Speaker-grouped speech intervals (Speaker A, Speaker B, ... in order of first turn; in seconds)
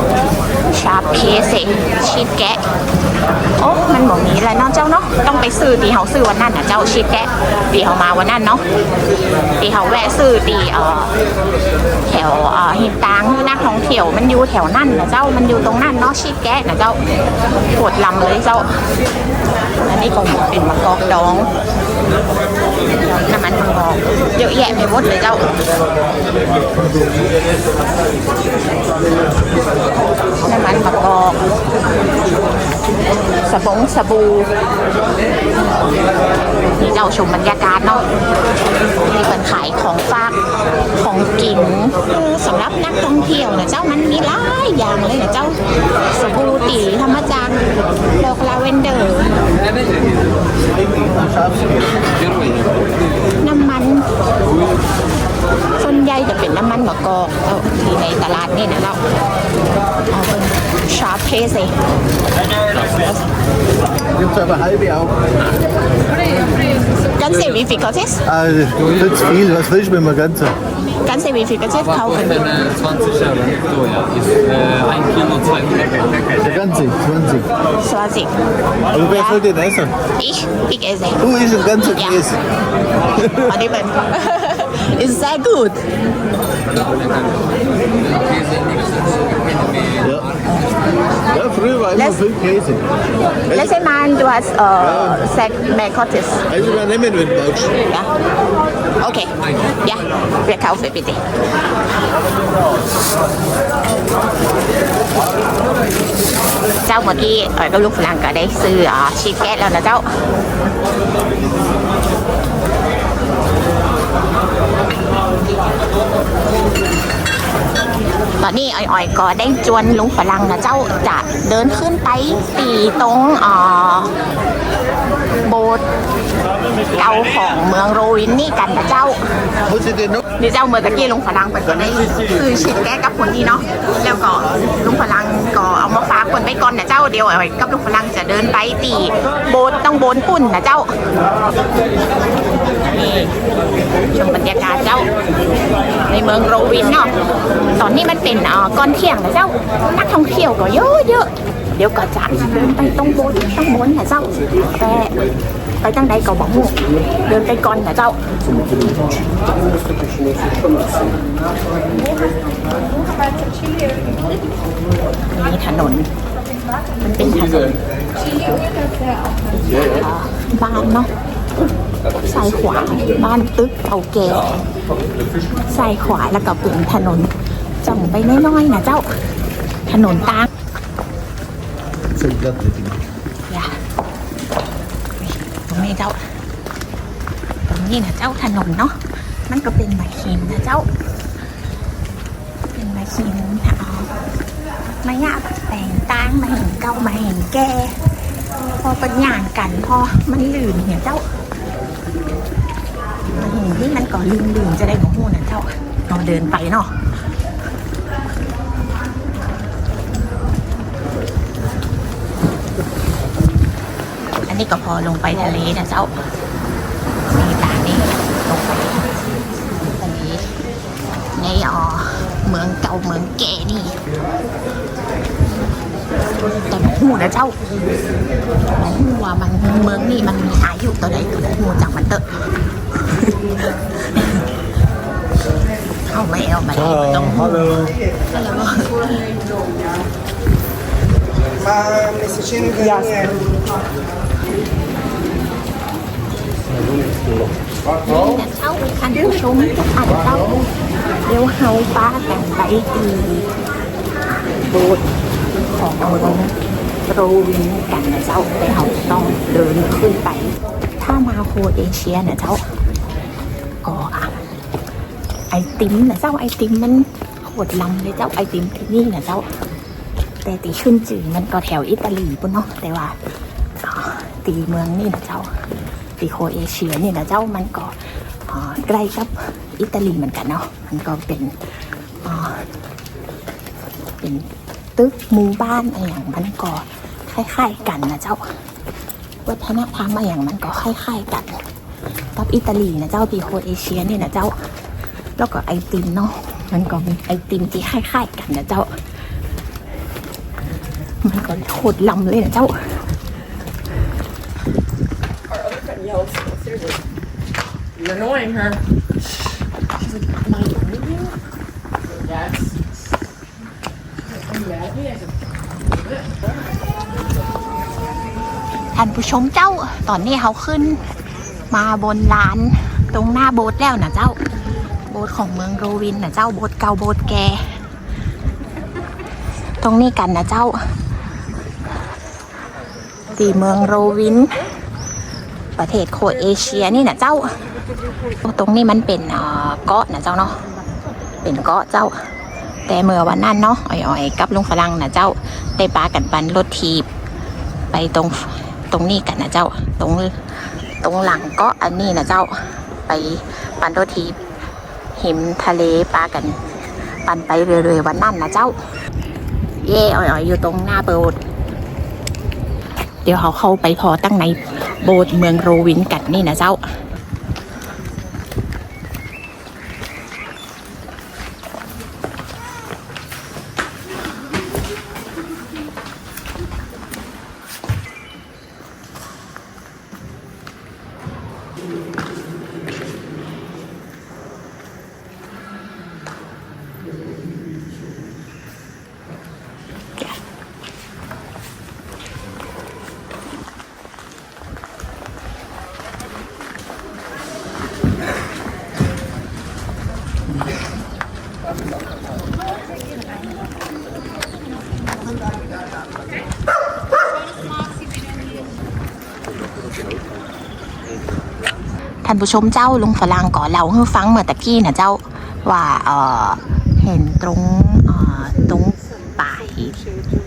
Speaker A: 0.7-2.6, 3.6-8.6, 9.6-11.1, 12.1-17.0, 17.7-18.7, 19.8-21.5, 22.9-25.5, 30.4-31.4, 33.4-34.5, 36.8-38.0, 39.1-40.4, 41.0-45.6, 46.1-47.6, 48.2-49.4, 53.4-54.1, 55.8-59.0, 60.1-61.8, 67.1-68.3, 71.0-72.7, 77.8-78.3, 78.9-79.5, 80.2-82.4, 83.2-85.8, 91.9-92.2, 93.5-96.7, 97.9-98.1, 99.0-101.2, 106.8-110.1, 118.4-124.2, 125.4-125.8, 126.9-129.2, 130.3-141.0, 142.8-143.3, 144.1-145.1, 146.1-147.1, 147.8-155.2, 155.8-158.2, 165.3-166.1, 167.0-167.8, 169.6-171.1, 172.2-174.5, 175.7-177.3, 177.8-179.1, 179.9-180.5, 183.5-183.8, 185.2-186.2, 187.7-190.9, 192.7-194.2, 195.0-198.0, 198.8-201.2, 203.3-206.9, 214.5-216.2, 217.3-219.1, 219.9-220.5, 221.3-224.0, 226.7-227.6, 228.8-232.4, 236.1-239.2, 248.0-250.6, 251.2-253.5, 254.6-255.1, 255.7-256.6, 257.1-262.6, 263.8-264.4, 265.5-269.5, 270.4-273.2, 273.8-275.5, 276.2-281.6, 282.2-282.7, 284.2-288.6, 289.4-291.6, 292.4-294.6, 295.4-298.9, 301.2-303.0, 318.9-321.0, 321.7-324.4, 325.1-327.8, 329.8-330.8, 333.3-334.6, 335.8-337.6, 338.4-340.6, 341.4-342.3, 342.9-347.1, 347.9-354.4, 355.1-356.6, 357.2-358.8, 359.8-361.4, 363.2-367.0, 412.2-420.0
Speaker B: 50.7-52.0, 64.1-65.2, 68.3-70.5, 76.4-77.5, 78.9-79.9, 81.3-82.3, 91.3-92.8, 96.6-97.8, 129.7-130.2, 182.2-183.0
Speaker C: 72.6-76.4, 86.8-87.3, 88.0-90.2
Speaker D: 305.5-307.0, 308.0-308.8, 310.1-311.4